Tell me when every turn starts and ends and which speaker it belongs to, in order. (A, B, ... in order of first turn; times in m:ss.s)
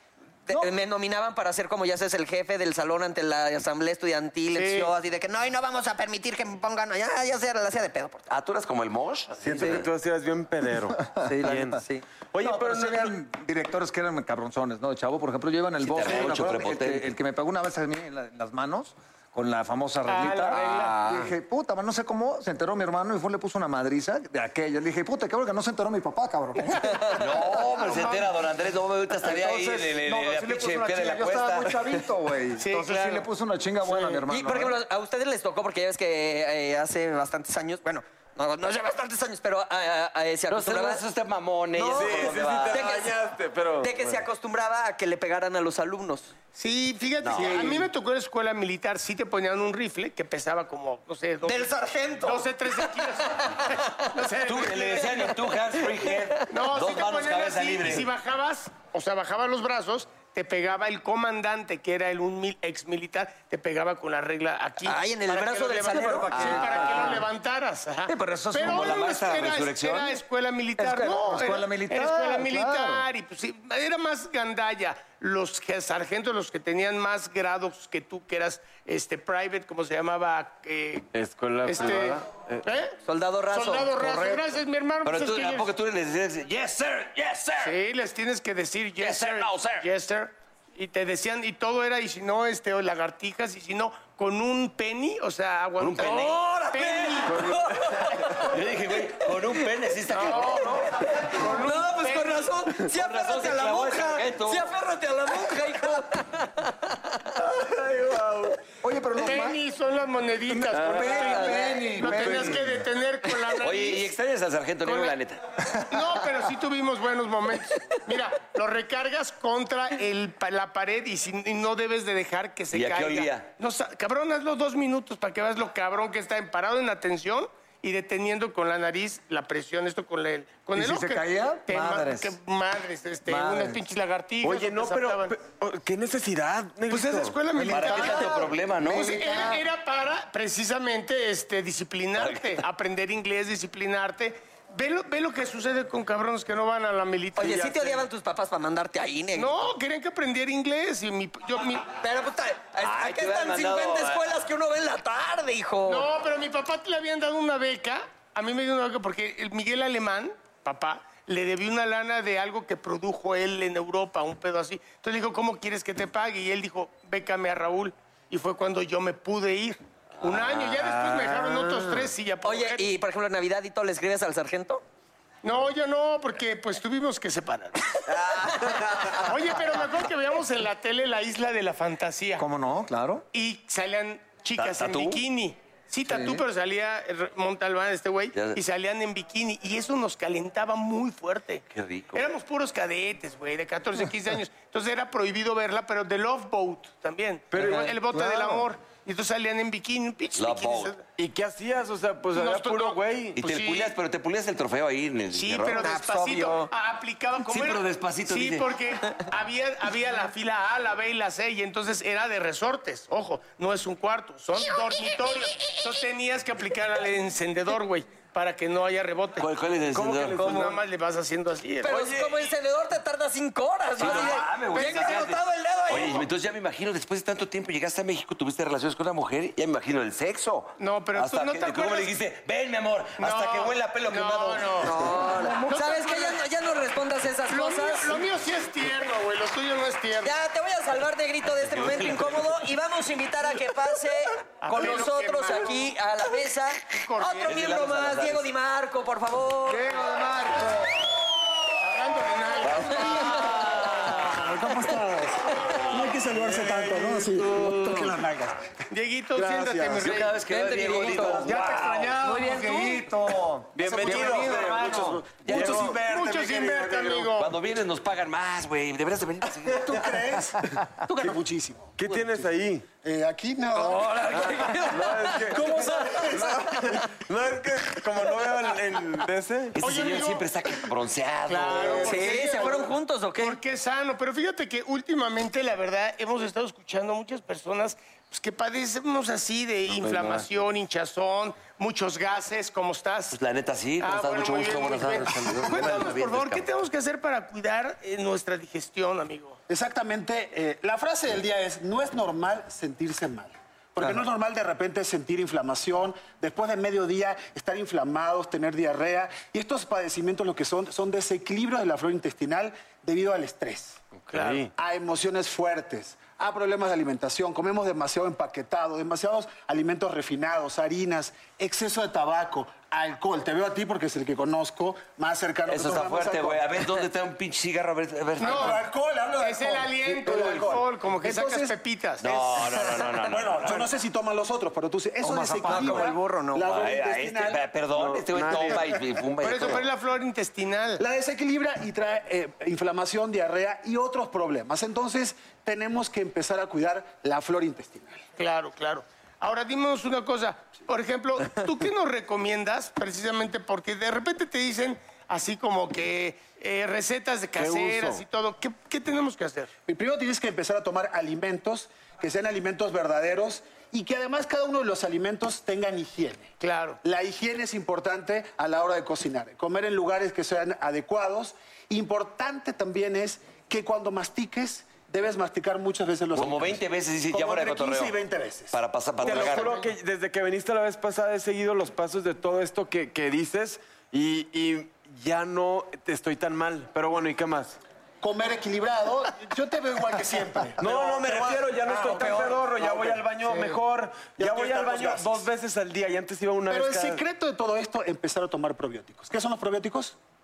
0:00.5-0:08.2 A
0:04.5-0:04.9 B
0:08.3-0:09.8 C
0:09.4-0:11.8 D
0:11.1-0:11.8 E
0:11.2-0:12.0 A
0:12.3-0:13.1 D
0:12.4-0:27.2 E
0:15.8-0:17.1 C
0:20.1-0:21.0 B
0:20.5-0:20.8 C
0:26.9-0:27.2 A
0:27.2-0:31.9 C
0:29.2-0:34.8 E
0:32.6-0:33.2 B
0:33.9-0:34.1 B
0:34.2-0:41.0 A
0:40.5-0:42.9 C
0:41.7-0:43.2 A
0:41.9-0:44.2 D
0:43.8-0:46.3 A
0:46.5-0:53.5 B
0:47.2-0:47.8 C
0:47.3-0:47.7 D
0:51.4-0:54.2 A
0:54.1-0:55.1 B
0:54.4-0:58.1 C
0:55.0-0:56.4 A
0:56.5-1:21.1 B
1:04.8-1:07.2 A
1:06.0-1:07.2 E
1:08.1-1:09.1 E
1:08.6-1:10.2 C
1:10.8-1:13.0 E
1:21.1-1:22.6 D
1:21.6-1:22.9 B
1:23.0-1:24.5 A
1:23.5-1:25.7 B
1:25.0-1:27.8 C
1:27.6-1:37.4 B
1:29.0-1:29.8 C
1:35.8-1:36.5 C
1:36.2-1:39.7 A
1:37.3-1:37.7 D
1:38.4-1:40.8 C
1:40.1-1:42.5 B
1:41.4-1:47.0 A
1:42.9-1:44.7 C
1:47.7-1:48.5 D
1:48.8-1:49.6 E
1:49.2-1:54.1 B
1:50.5-1:52.8 E
1:53.6-1:55.4 C
1:54.8-1:55.1 B
1:55.9-2:15.4 B
2:02.7-2:03.5 C
2:10.8-2:12.3 E
2:13.2-2:13.8 E
2:14.4-2:17.4 D
2:16.9-2:28.0 B
2:17.6-2:19.6 E
2:17.7-2:19.4 C
2:22.2-2:22.6 C
2:27.4-2:29.7 A
2:29.3-2:32.0 B
2:31.8-2:36.1 A
2:32.8-2:34.3 C
2:35.8-2:52.9 B
2:50.2-2:51.1 C
2:52.4-2:54.8 A
2:55.4-2:58.1 B
2:58.1-2:58.8 C
2:58.4-2:59.3 A
2:59.2-3:02.4 B
3:02.4-3:03.2 E
3:03.3-3:21.0 B
3:04.6-3:05.2 C
3:06.1-3:06.4 E
3:08.3-3:08.6 C
3:11.7-3:12.3 C
3:17.5-3:18.5 D
3:20.3-3:21.0 C
3:21.2-3:23.4 D
3:22.3-3:23.9 B
3:23.4-3:26.0 C
3:25.3-3:39.4 B
3:25.8-3:26.7 A
3:27.4-3:28.7 C
3:39.4-3:40.6 C
3:39.9-3:40.7 D
3:40.4-3:40.7 A
3:40.4-3:42.3 B
3:41.8-3:46.3 A
3:44.0-3:55.0 C
3:50.8-3:52.1 B
3:53.2-3:56.4 B
3:54.8-3:58.3 A
3:57.5-4:00.3 B
4:00.2-4:09.9 A
4:01.6-4:02.6 C
4:04.6-4:06.0 B
4:06.9-4:07.6 B
4:07.4-4:08.5 C
4:09.9-4:10.6 F
4:11.8-4:14.0 B
4:12.6-4:13.4 C
4:13.1-4:14.2 A
4:14.0-4:18.6 F
4:18.9-4:20.4 B
4:19.4-4:20.0 F
4:19.8-4:21.9 C
4:20.4-4:21.6 A
4:21.2-4:25.4 E
4:21.5-4:22.3 B
4:21.5-4:22.5 F
4:22.2-4:23.0 A
4:23.7-4:26.0 D
4:23.8-4:27.2 F
4:25.5-4:25.8 C
4:25.9-4:27.5 B
4:27.3-4:30.1 C
4:29.7-4:32.5 F
4:32.0-4:32.8 D
4:33.0-4:34.8 F
4:33.8-4:36.2 A
4:34.3-4:39.8 D
4:35.5-4:37.0 F
4:39.8-4:42.2 C
4:39.8-4:40.5 B
4:41.5-4:43.6 A
4:41.5-4:53.4 B
4:41.6-4:42.9 F
4:49.9-4:50.5 C
4:53.3-4:56.7 C
4:54.0-4:59.6 B
4:59.7-5:14.0 F
5:14.3-5:14.7 D
5:14.3-5:14.7 B
5:14.7-5:26.6 F
5:25.7-5:28.8 C
5:28.4-5:28.8 B
5:28.4-5:31.8 F
5:29.4-5:32.5 B
5:32.2-5:33.9 C
5:32.6-5:37.6 F
5:35.2-5:36.2 E
5:35.6-5:36.6 A
5:36.6-5:39.9 C
5:37.9-5:38.8 D
5:39.4-5:41.0 B
5:41.0-5:48.2 F
5:48.4-5:59.7 B
5:57.6-5:58.1 D
5:59.8-6:19.7 F
6:06.6-6:07.0 B
6:16.3-6:18.2 C
6:18.7-6:19.8 C
6:19.2-6:27.8 D
6:28.2-6:33.8 F
6:30.8-6:37.2 D
6:34.4-6:35.4 F
6:36.7-6:40.2 F